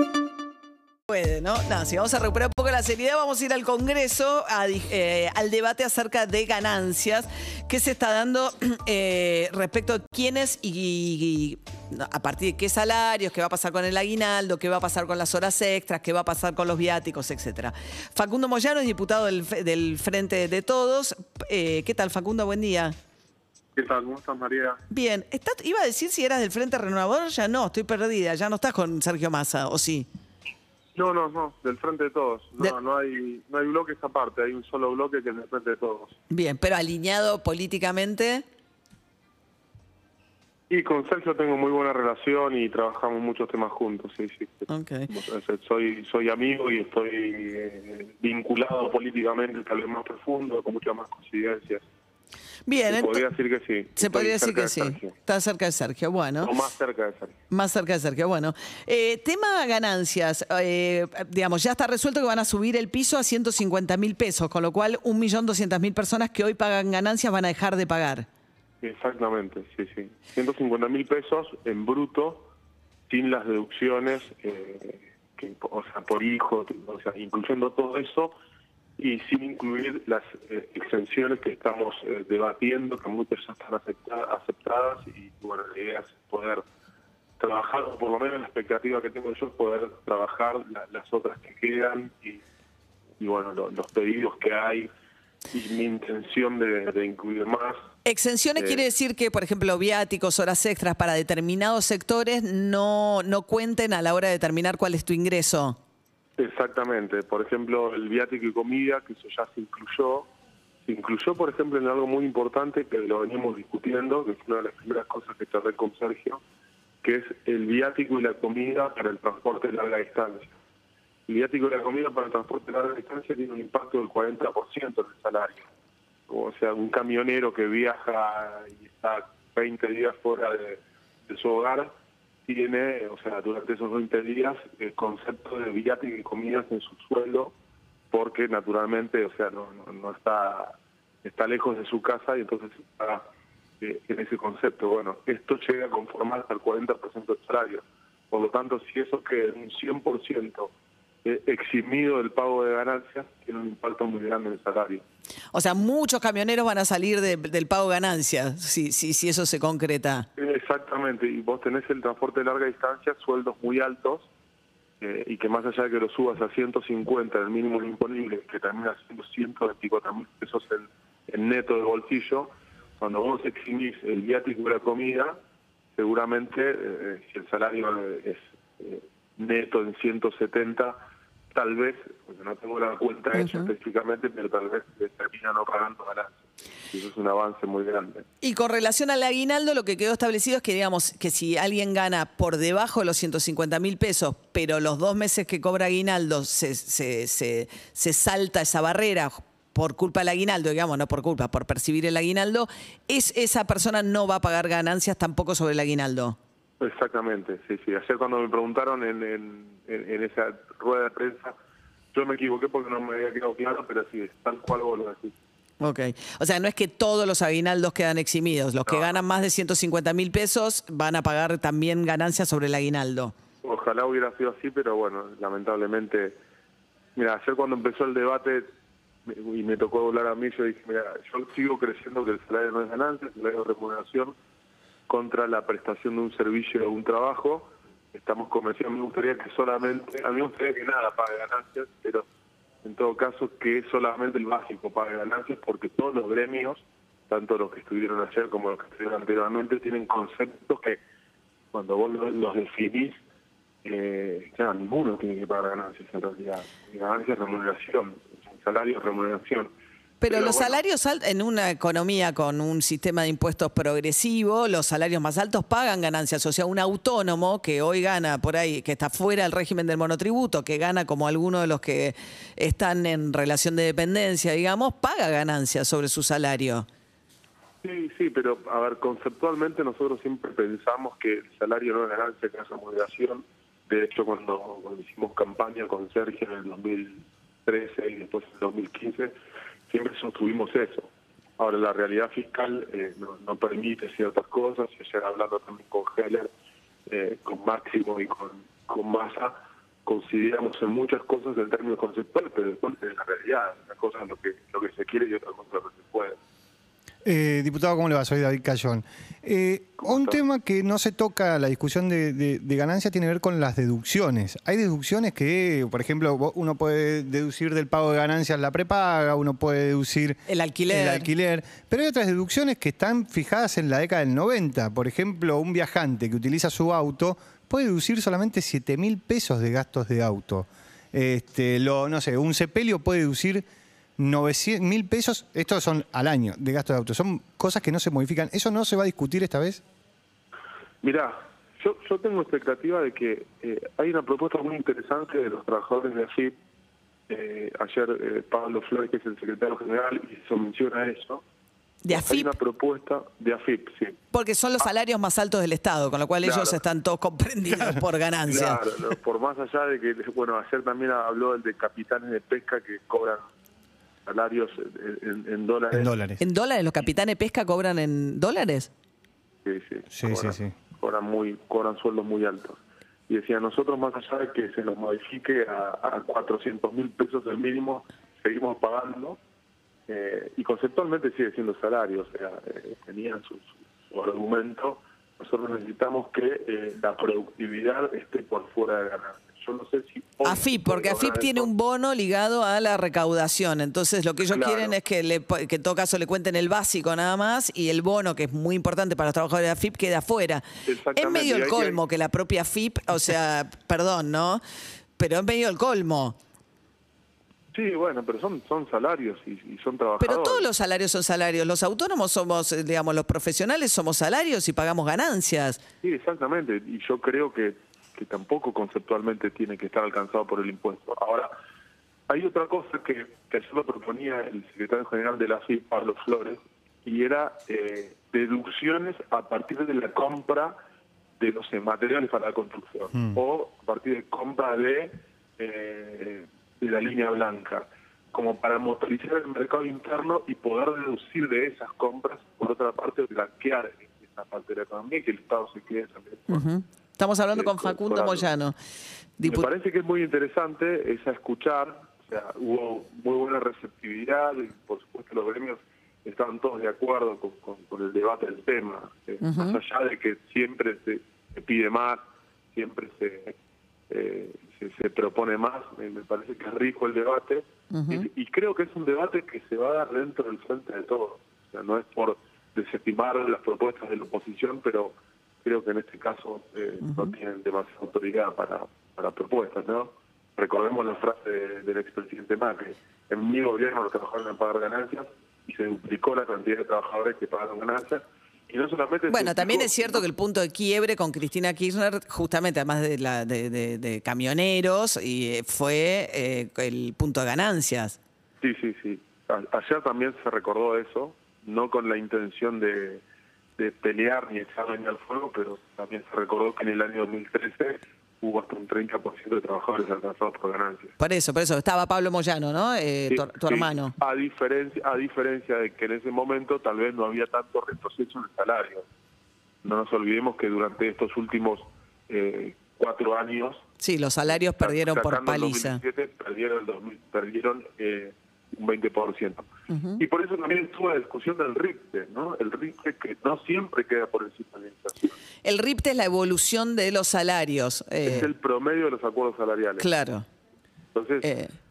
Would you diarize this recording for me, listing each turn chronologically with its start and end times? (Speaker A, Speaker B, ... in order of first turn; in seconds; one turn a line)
Speaker A: 1.1-22.9
Speaker B: 23.7-24.8
Speaker A: 24.9-30.1
Speaker B: 30.9-36.2
Speaker A: 36.3-38.4
Speaker B: 40.7-51.8
Speaker A: 44.7-45.1
Speaker A: 52.7-53.2
Speaker B: 52.9-55.1
Speaker A: 54.0-56.5
Speaker B: 56.4-57.4
Speaker A: 57.5-68.3
Speaker B: 68.8-72.5
Speaker B: 73.1-78.3
Speaker B: 79.0-86.6
Speaker B: 87.4-92.4
Speaker B: 93.2-94.9
Speaker B: 95.5-97.8
Speaker A: 98.0-105.8
Speaker B: 98.6-98.9
Speaker B: 106.4-110.3
Speaker B: 110.8-116.4
Speaker B: 117.0-120.5
Speaker B: 121.3-125.6
Speaker B: 126.3-131.9
Speaker B: 132.5-137.5
Speaker B: 138.1-143.2
Speaker B: 143.8-150.7
Speaker B: 151.2-155.0
Speaker A: 155.5-160.2
Speaker B: 160.3-164.3
Speaker B: 165.0-175.3
Speaker B: 175.9-180.9
Speaker B: 181.5-188.2
Speaker A: 183.3-183.7
Speaker A: 188.4-206.4
Speaker B: 206.8-211.5
Speaker B: 212.1-215.3
Speaker A: 215.8-223.3
Speaker B: 218.9-219.4
Speaker B: 223.6-226.4
Speaker B: 227.2-228.7
Speaker B: 229.3-234.3
Speaker B: 235.1-242.2
Speaker B: 242.8-251.0
Speaker B: 251.7-253.2
Speaker B: 253.8-259.7
Speaker A: 260.2-276.9
Speaker B: 260.2-260.8
Speaker B: 277.8-289.3
Speaker B: 289.9-296.5
Speaker B: 297.1-299.5
Speaker B: 300.0-306.4
Speaker C: 307.2-333.6
Speaker B: 310.0-310.4
Speaker A: 320.5-321.3
Speaker C: 334.2-339.8
Speaker B: 341.0-346.6
Speaker B: 347.3-351.4
Speaker A: 352.0-352.5
Speaker B: 352.1-354.1
Speaker A: 354.3-358.8
Speaker B: 356.4-356.8
Speaker B: 358.4-363.4
Speaker B: 364.2-366.1
Speaker C: 365.9-366.4
Speaker A: 366.4-368.9
Speaker B: 369.6-379.4
Speaker C: 370.1-370.8
Speaker B: 380.1-391.7
Speaker A: 390.4-404.6
Speaker B: 394.4-395.0
Speaker B: 400.9-402.0
Speaker A: 405.2-406.4
Speaker B: 407.7-410.6
Speaker A: 410.2-415.8
Speaker B: 416.0-421.5
Speaker B: 422.3-430.7
Speaker B: 431.4-446.6
Speaker A: 446.5-448.8
Speaker B: 447.5-448.5
Speaker A: 449.4-449.7
Speaker B: 449.4-462.2
Speaker A: 459.4-459.8
Speaker B: 462.7-463.5
Speaker B: 464.1-490.3
Speaker A: 467.9-468.3
Speaker A: 477.0-477.3
Speaker A: 489.3-498.2
Speaker B: 498.6-503.2
Speaker B: 503.8-511.1
Speaker A: 511.2-514.1
Speaker B: 513.3-519.0
Speaker B: 519.8-523.8
Speaker A: 524.0-526.0
Speaker B: 524.5-535.4
Speaker A: 529.9-530.2
Speaker A: 535.6-538.5
Speaker B: 538.2-540.1
Speaker A: 540.0-540.4
Speaker B: 541.1-541.5
Speaker A: 541.4-541.7